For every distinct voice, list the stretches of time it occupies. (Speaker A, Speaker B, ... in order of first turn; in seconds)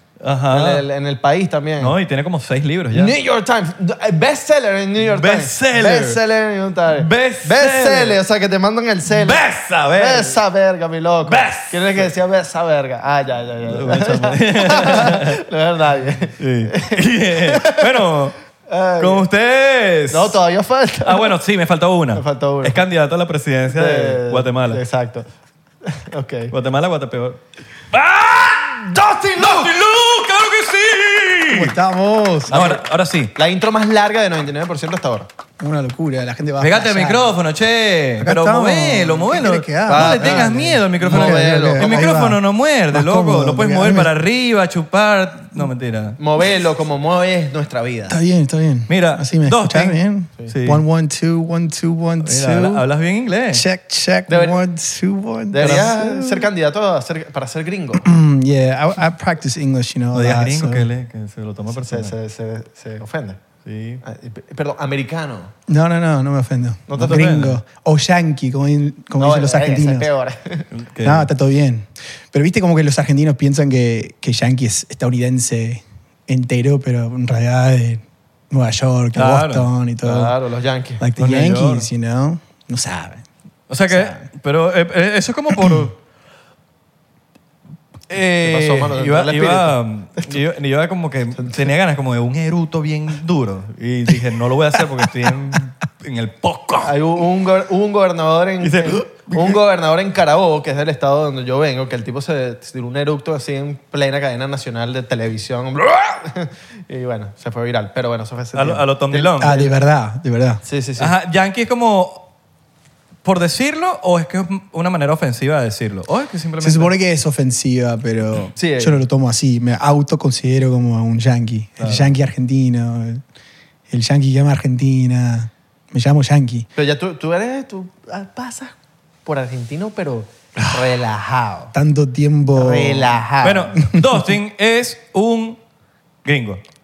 Speaker A: 0.2-0.8, 1.8-3.1, 5.0-6.2, 6.9-8.2, 9.1-10.4, 11.2-12.1, 13.7-15.4, 16.4-18.4, 19.0-20.4, 21.0-24.8, 26.5-27.4, 28.3-28.8, 29.4-31.7, 32.5-33.4, 36.6-46.2, 48.9-50.8, 52.2-53.6, 55.6-55.9, 60.1-62.1, 63.6-64.0, 67.0-67.6, 70.7-71.3, 79.2-79.7, 81.2-81.9, 83.7-86.0, 88.1-97.0, 98.6-99.6, 108.5-109.5, 111.0-112.3, 113.2-117.0, 121.8-122.1, 133.4-135.6, 136.2-136.6
Speaker B: 0.5-1.9, 2.9-18.1, 18.7-19.3, 20.1-21.4, 22.1-22.8, 23.7-25.3, 25.9-26.5, 27.9-29.8, 32.5-32.8, 33.4-35.3, 39.9-42.1, 46.2-48.2, 54.3-54.6, 55.5-58.1, 61.8-63.4, 64.0-65.5, 66.9-67.3, 69.2-70.7, 80.0-81.0, 88.4-90.2, 91.4-91.7, 96.8-109.7, 110.6-111.1, 118.6-119.0, 126.8-128.7, 129.2-131.8, 132.5-133.8
Speaker C: 31.5-32.7, 35.6-37.3, 38.2-42.4, 42.9-44.1, 48.1-52.8, 53.5-56.5, 58.0-60.9, 65.7-70.1, 71.0-80.3, 81.0-83.2, 83.9-84.2, 109.4-110.6, 116.6-123.2, 123.9-126.7, 130.6-130.9, 131.7-133.2